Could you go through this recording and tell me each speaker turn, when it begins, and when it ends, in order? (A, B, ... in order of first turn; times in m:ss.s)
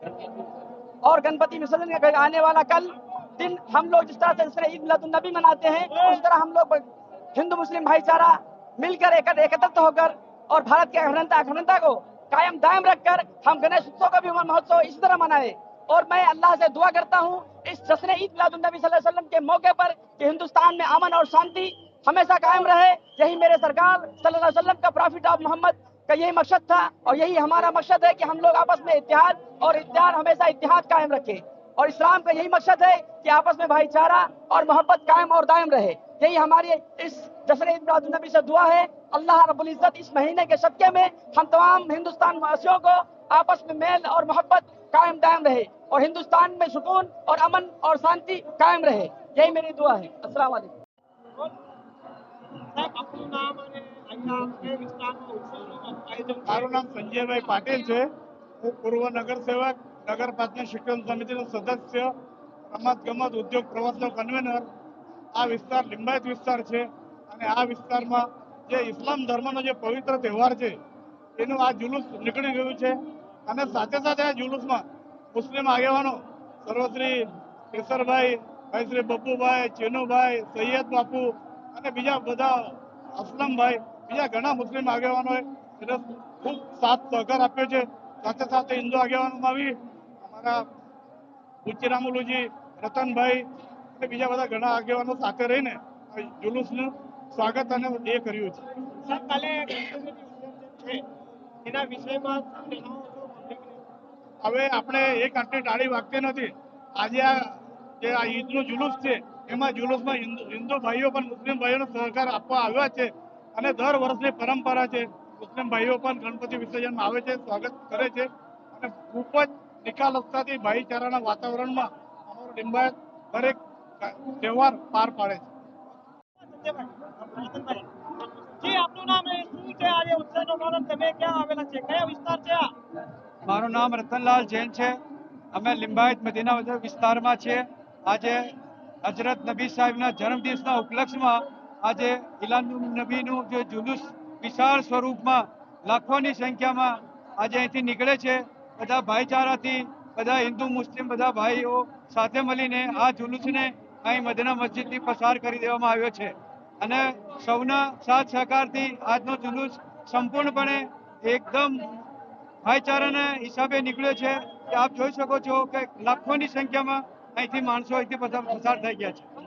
0:01.0-0:06.8 A
0:07.4-0:50.7 A
0:52.7-0:56.8 B
0:56.5-0:58.1 C
0:58.6-1:02.1 C
1:02.7-1:04.7 C
1:05.4-1:10.8 C
1:11.4-1:30.6 C
1:31.6-1:33.5 C
1:34.0-1:38.6 C
1:39.0-1:41.0 B
1:41.6-1:43.8 B
1:44.4-2:05.5 C
2:06.4-2:12.7 B
2:13.5-2:15.0 D
2:15.5-2:18.5 D
2:19.0-2:41.9 D
2:42.6-2:49.3 D